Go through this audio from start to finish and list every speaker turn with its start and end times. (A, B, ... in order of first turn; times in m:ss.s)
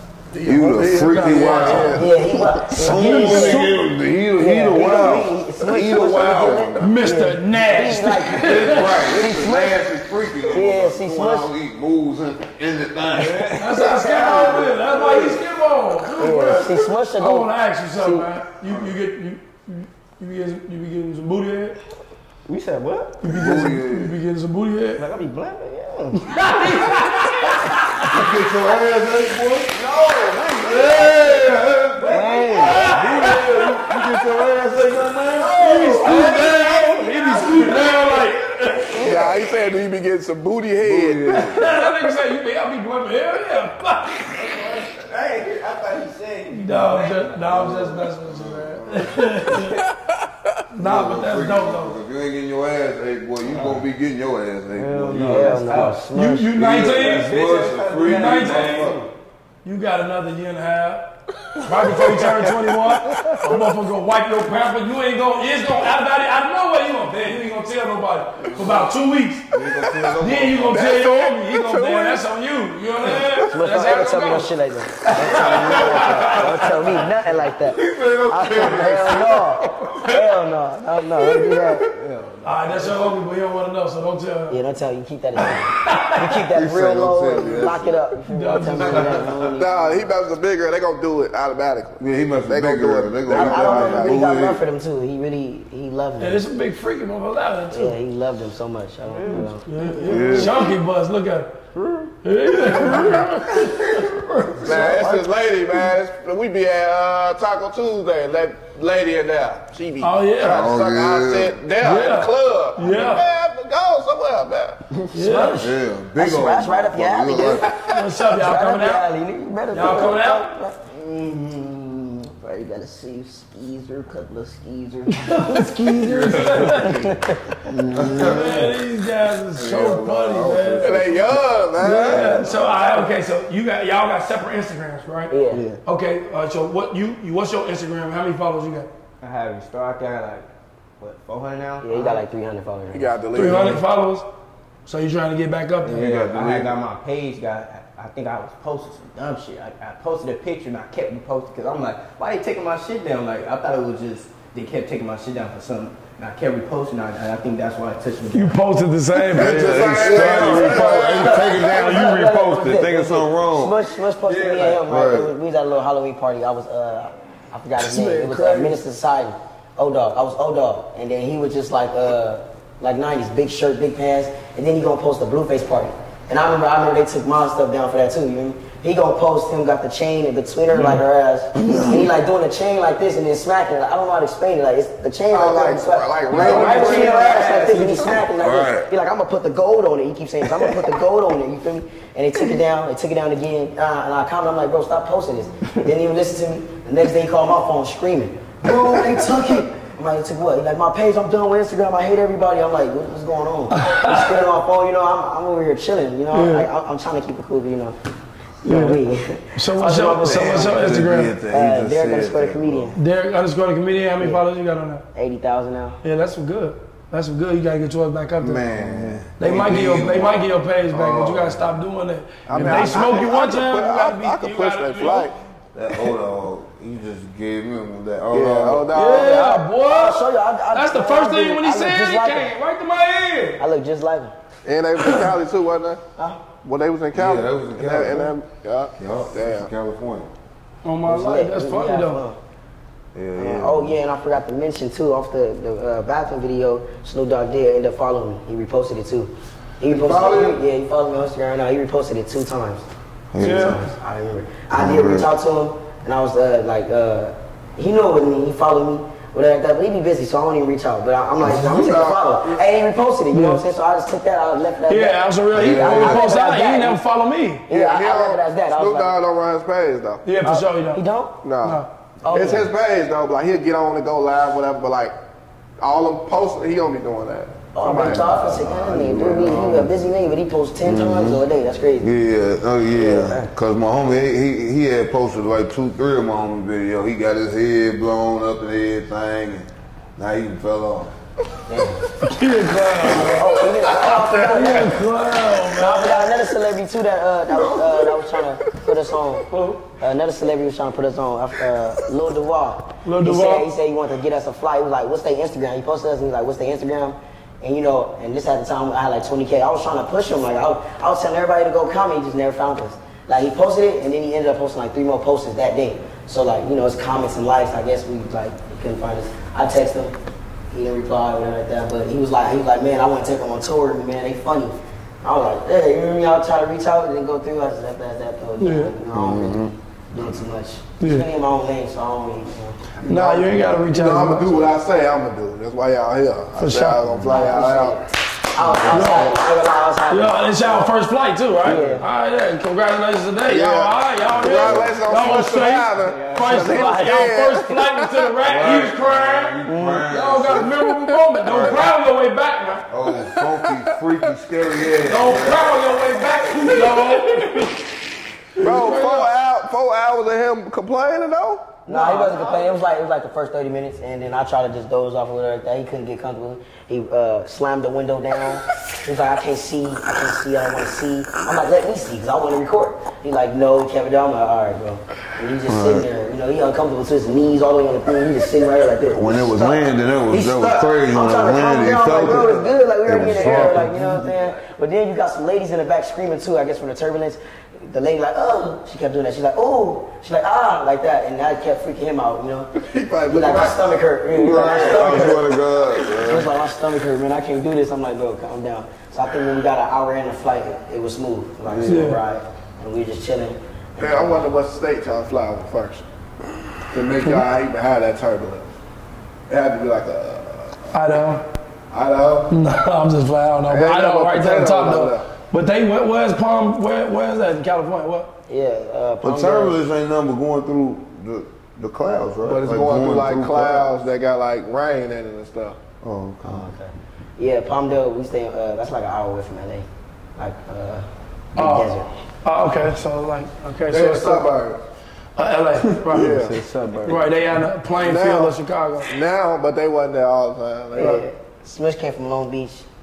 0:00.3-0:02.1 A
0:00.4-0:06.9 B
0:01.4-0:02.0 C
0:01.9-0:03.8 D
0:02.9-0:03.7 A
0:02.9-0:03.6 C
0:04.4-0:09.8 D
0:06.8-0:08.9 C
0:08.4-0:15.0 B
0:10.5-0:11.5 D
0:13.2-0:14.6 E
0:13.6-0:21.8 C
0:13.8-0:14.3 D
0:16.2-0:17.5 D
0:18.0-0:18.3 A
0:22.5-0:23.2 E
0:23.2-0:25.0 C
0:23.2-0:24.2 B
0:25.0-0:27.6 E
0:26.2-0:28.0 C
0:28.1-0:29.7 B
0:29.7-0:39.3 E
0:30.6-0:36.4 B
0:32.1-0:32.8 D
0:32.6-0:33.8 C
0:35.5-0:39.0 C
0:39.0-0:41.6 A
0:40.8-0:41.7 B
0:41.5-0:44.5 C
0:44.4-0:47.5 E
0:46.5-0:49.8 C
0:47.4-0:49.6 B
0:49.8-0:50.3 A
0:50.7-0:51.9 C
0:50.8-0:55.9 B
0:53.4-0:53.8 E
0:54.8-0:56.5 D
0:55.0-0:56.0 E
0:55.8-0:57.4 C
0:56.6-0:59.1 B
0:56.9-0:59.1 E
0:58.0-0:59.0 C
0:59.6-1:01.1 C
1:01.6-1:14.5 C
1:08.4-1:08.8 A
1:09.5-1:11.0 B
1:10.7-1:12.2 A
1:13.0-1:13.5 A
1:13.5-1:21.9 D
1:15.1-1:17.0 C
1:15.1-1:17.0 B
1:17.6-1:19.5 B
1:21.7-1:23.2 E
1:22.4-1:24.6 C
1:24.5-1:30.1 D
1:25.8-1:26.2 C
1:26.5-1:28.0 B
1:28.3-1:29.2 C
1:28.8-1:29.5 B
1:29.6-1:34.2 A
1:32.0-1:34.6 B
1:33.3-1:36.4 D
1:36.2-1:38.0 C
1:37.7-1:39.7 D
1:39.1-1:40.5 E
1:39.7-1:41.5 C
1:40.1-1:40.7 B
1:41.8-1:42.1 E
1:42.2-1:43.4 C
1:42.7-1:45.1 E
1:43.0-1:45.2 B
1:44.6-1:54.8 A
1:50.0-1:50.7 C
1:50.4-1:51.6 B
1:51.8-1:53.2 C
1:55.1-1:55.7 C
1:55.1-2:00.8 D
1:55.5-1:57.8 B
1:57.8-1:59.1 C
1:59.7-2:00.5 C
2:00.8-2:06.9 E
2:05.1-2:07.1 C
2:06.0-2:07.1 B
2:07.0-2:08.3 D
2:07.7-2:08.2 E
2:07.9-2:08.9 B
2:08.1-2:11.0 C
2:09.5-2:12.6 B
2:10.8-2:12.9 A
2:11.8-2:15.3 C
2:15.3-2:15.6 D
2:15.9-2:18.9 C
2:19.2-2:20.5 E
2:21.0-2:22.3 E
2:21.8-2:23.1 D
2:22.9-2:23.8 A
2:23.3-2:24.3 C
2:24.9-2:26.1 C
2:25.8-2:38.6 E
2:25.9-2:26.8 B
2:38.3-2:41.9 C
2:39.3-2:41.3 A
2:39.3-2:45.3 B
2:39.9-2:41.3 E
2:40.4-3:28.0 D
2:47.8-2:48.8 C
3:01.6-3:02.1 B
3:05.3-3:07.5 A
3:06.3-3:08.2 E
3:08.4-3:08.9 B
3:23.8-3:24.4 C
3:26.3-3:26.7 C
3:28.6-3:33.0 D
3:28.6-3:29.0 C
3:29.6-3:31.3 C
3:30.2-3:33.0 B
3:33.0-3:35.0 C
3:35.1-3:36.0 D
3:36.0-3:38.6 C
3:38.4-3:41.7 B
3:38.8-3:39.2 E
3:39.4-3:45.3 C
3:42.5-3:45.3 A
3:42.6-3:43.0 B
3:45.7-3:48.9 B
3:48.3-3:49.5 A
3:48.9-3:53.6 C
3:49.0-3:52.5 D
3:53.6-3:54.3 D
3:54.6-3:56.0 A
3:55.0-3:55.3 C
3:56.6-3:59.7 A
3:57.1-3:58.3 B
3:59.0-4:00.3 B
4:00.8-4:02.2 C
4:01.1-4:02.4 D
4:03.2-4:04.0 B
4:03.4-4:12.9 D
4:09.9-4:10.6 B
4:13.3-4:13.9 B
4:13.4-4:27.0 D
4:13.4-4:13.8 C
4:14.7-4:15.3 B
4:21.4-4:22.2 B
4:21.5-4:22.6 A
4:23.3-4:23.6 C
4:24.9-4:27.7 C
4:25.5-4:26.2 B
4:27.7-4:29.2 D
4:27.7-4:30.2 A
4:30.2-4:31.0 C
4:30.4-4:31.4 D
4:31.4-4:35.1 A
4:31.6-4:32.6 C
4:32.2-4:32.7 D
4:35.8-4:38.3 A
4:37.7-4:42.1 D
4:38.0-4:40.0 B
4:39.0-4:39.7 A
4:40.8-4:41.4 B
4:42.0-4:51.1 B
4:42.9-4:43.5 D
4:51.7-4:52.0 D
4:52.2-4:53.4 C
4:53.1-4:55.0 A
4:53.1-4:53.4 B
4:53.3-4:55.0 D
4:54.4-4:56.3 C
4:55.7-5:20.2 D
4:57.5-4:58.3 B
5:03.0-5:03.7 C
5:20.7-5:33.0 D
5:28.6-5:28.9 C
5:29.1-5:29.7 B
5:31.0-5:31.3 C
5:33.0-5:38.0 A
5:33.0-5:34.6 C
5:36.6-5:37.0 C
5:37.1-5:37.4 B
5:37.3-5:40.8 D
5:38.6-5:39.2 B
5:38.9-5:39.3 C
5:40.1-5:52.9 C
5:41.6-5:42.1 D
5:43.5-5:48.2 A
5:44.2-5:45.0 B
5:46.0-5:47.0 E
5:48.4-5:50.9 B
5:49.7-5:50.1 D
5:51.4-5:51.9 B
5:52.9-5:55.9 B
5:53.1-5:54.0 A
5:55.0-5:57.8 C
5:56.6-5:57.5 A
5:58.6-5:59.3 C
5:58.6-6:01.8 A
6:01.8-6:32.7 D
6:01.9-6:02.3 C
6:02.0-6:02.7 E
6:15.7-6:16.1 B
6:19.1-6:24.0 B
6:23.2-6:24.5 E
6:32.8-6:33.9 A
6:33.3-6:35.6 D
6:34.3-6:36.5 B
6:34.6-6:35.4 A
6:36.1-6:44.5 D
6:41.6-6:42.2 B
6:41.9-6:42.2 C
6:44.0-6:46.1 A
6:46.9-6:48.7 A
6:49.5-6:50.9 A
6:50.9-6:51.4 C
6:51.9-6:52.5 A
6:52.5-6:58.3 C
6:53.7-6:55.3 A
6:58.5-6:59.8 D
6:59.2-7:03.9 B
7:02.4-7:05.8 A
7:06.0-7:06.7 B
7:06.4-7:12.1 D
7:11.6-7:14.5 C
7:13.9-7:14.8 A
7:15.4-7:16.5 C
7:16.1-7:16.6 A
7:16.2-7:17.2 E
7:17.1-7:19.1 C
7:18.0-7:18.6 A
7:19.1-7:21.3 A
7:21.0-7:22.9 D